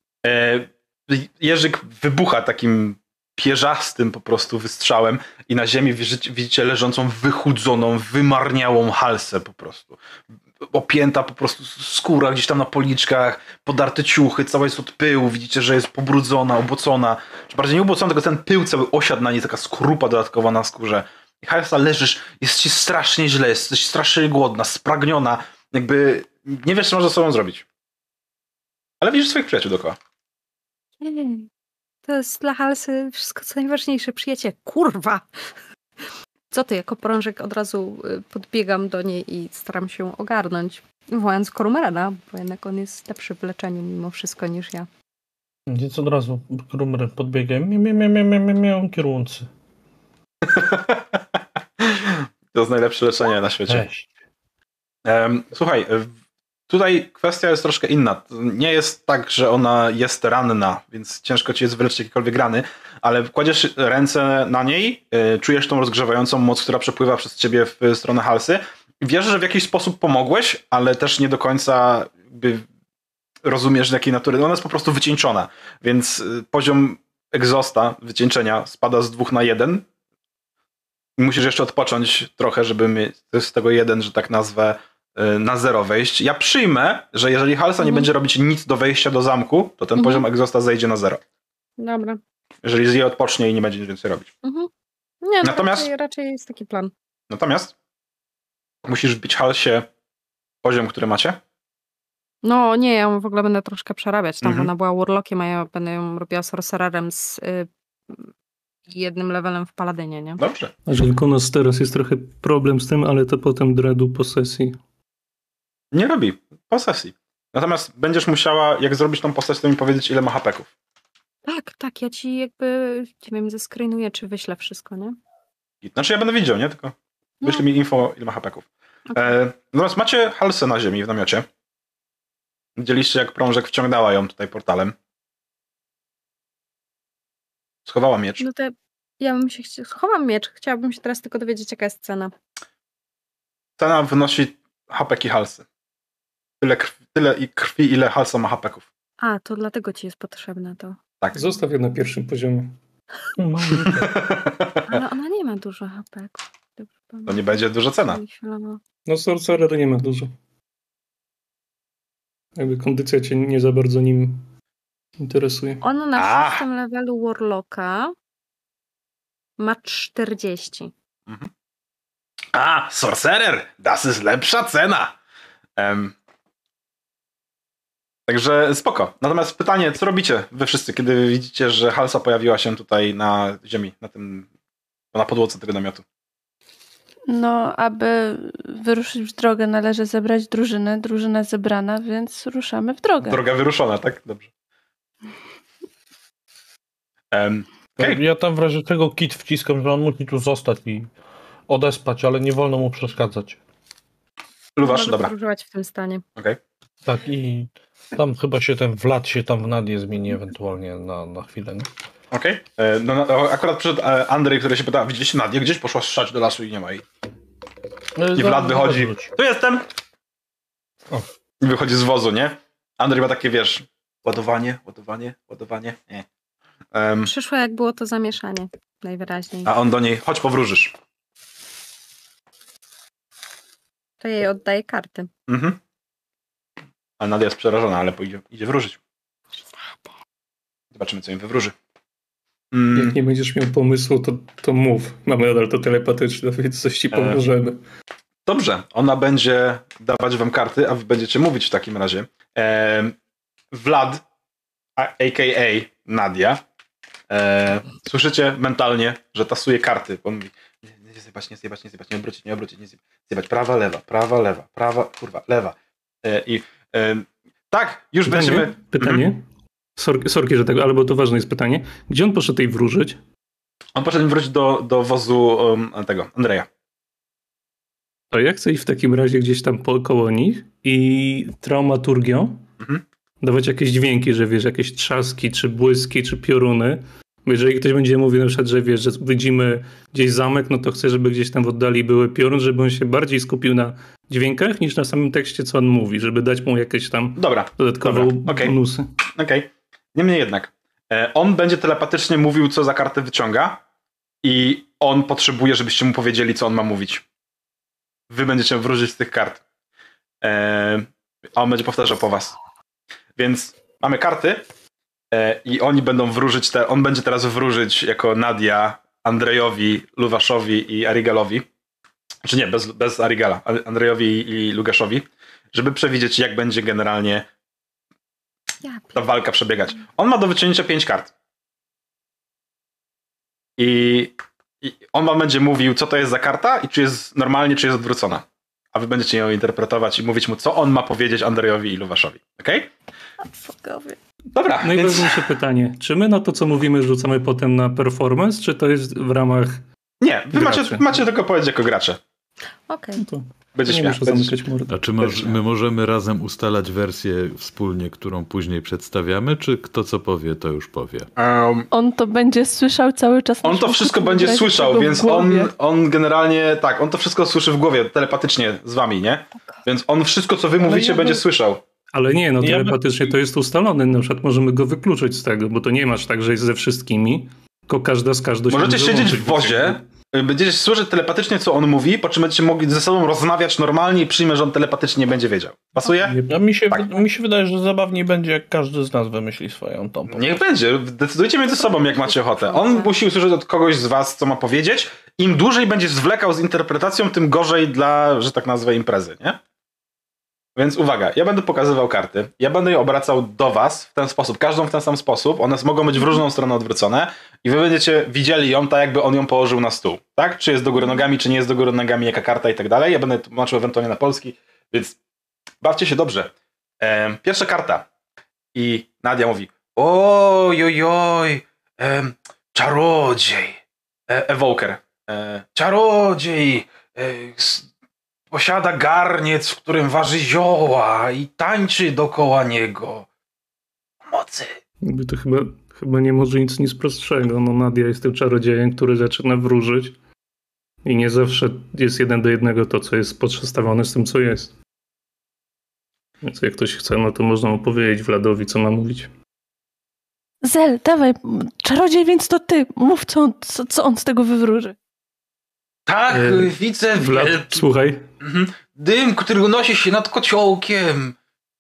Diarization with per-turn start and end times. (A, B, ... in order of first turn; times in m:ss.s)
0:00.2-0:10.0 A
0:10.6-0:27.6 A
0:29.0-0:30.0 A
0:31.0-0:31.5 B
0:32.1-0:35.3 B
0:36.5-0:44.9 B
0:45.7-0:49.5 C
0:50.4-0:53.9 A
0:53.7-0:54.1 C
0:55.0-0:56.1 A
0:56.7-1:12.7 A
1:13.4-1:19.9 A
1:21.2-1:31.2 A
1:27.8-1:28.1 B
1:30.0-1:30.2 B
1:31.8-1:32.2 B
1:32.6-1:34.3 A
1:34.4-1:34.7 B
1:35.2-1:36.9 B
1:35.4-1:35.9 A
1:37.3-1:37.8 A
1:38.8-1:39.9 A
1:40.6-1:41.4 A
1:42.4-1:48.3 B
1:44.4-1:44.7 A
1:48.9-1:50.4 B
1:50.4-1:50.7 A
1:50.9-1:54.8 D
1:55.9-2:00.7 A
2:01.5-2:05.2 B
2:05.8-2:11.5 A
2:09.1-2:09.4 B
2:12.8-2:15.0 A
2:17.9-2:18.4 A
2:18.4-2:22.3 B
2:23.8-2:25.7 A
2:26.6-2:28.9 A
2:29.2-2:31.0 B
2:31.4-2:32.8 D
2:33.4-2:34.2 C
2:33.8-2:35.0 A
2:34.8-2:37.4 B
2:37.3-2:38.2 A
2:38.0-2:38.8 B
2:39.1-2:40.3 D
2:42.6-2:44.5 D
2:45.2-2:45.8 D
2:45.8-2:48.1 B
2:46.2-2:46.6 A
2:49.6-2:50.9 B
2:52.5-2:55.2 A
2:55.8-2:56.2 A
2:58.3-3:04.5 A
3:05.1-3:06.0 A
3:07.3-3:13.4 E
3:13.2-3:14.5 A
3:17.3-3:18.2 A
3:18.0-3:21.1 C
3:21.7-3:23.6 C
3:24.8-3:25.3 A
3:24.8-3:26.2 B
3:27.0-3:31.9 C
3:32.3-3:37.0 A
3:38.2-3:39.3 C
3:38.4-3:39.9 A
3:41.6-3:46.3 A
3:46.9-3:47.3 A
3:47.2-3:49.8 B
3:49.6-3:51.0 A
3:54.2-3:55.3 B
3:55.5-3:55.8 A
3:57.2-3:59.0 A
3:59.5-4:00.1 B
4:00.9-4:01.8 A
4:02.7-4:03.2 A
4:03.0-4:07.8 D
4:07.1-4:07.4 A
4:08.4-4:13.2 A
4:13.7-4:14.2 A
4:15.0-4:16.6 A
4:17.3-4:29.3 A
4:28.2-4:29.4 D
4:30.0-4:33.2 D
4:34.0-4:36.7 A
4:38.3-4:42.6 D
4:43.4-4:59.1 D
4:57.4-4:58.8 A
4:59.3-5:03.8 A
5:04.4-5:07.2 A
5:08.3-5:09.6 A
5:10.4-5:12.6 A
5:13.4-5:14.7 A
5:15.3-5:21.7 A
5:22.4-5:27.5 A
5:28.8-5:29.3 B
5:29.1-5:31.3 A
5:33.8-5:42.9 A
5:43.4-5:44.2 B
5:44.6-5:45.5 A
5:44.8-5:49.8 D
5:50.2-5:52.2 A
5:50.5-5:51.2 D
5:52.9-5:53.2 B
5:53.2-5:54.9 D
5:53.8-5:54.6 A
5:54.9-6:01.3 F
5:55.2-5:55.6 A
6:01.4-6:01.9 A
6:01.9-6:05.7 E
6:03.6-6:11.8 A
6:10.9-6:11.4 C
6:12.1-6:20.0 D
6:12.6-6:13.1 C
6:18.7-6:26.4 A
6:26.2-6:26.5 D
6:26.5-6:30.6 C
6:30.3-6:39.6 A
6:31.8-6:33.1 B
6:40.8-6:55.2 A
6:55.8-6:58.1 A
6:58.8-7:07.9 A
7:08.5-7:13.3 A
7:14.2-7:14.8 A
7:15.0-7:20.2 D
7:21.0-7:24.7 D
7:26.4-7:29.3 D
7:30.6-7:35.0 E
7:36.1-7:37.9 A
7:36.3-7:38.3 D
7:38.4-7:41.4 A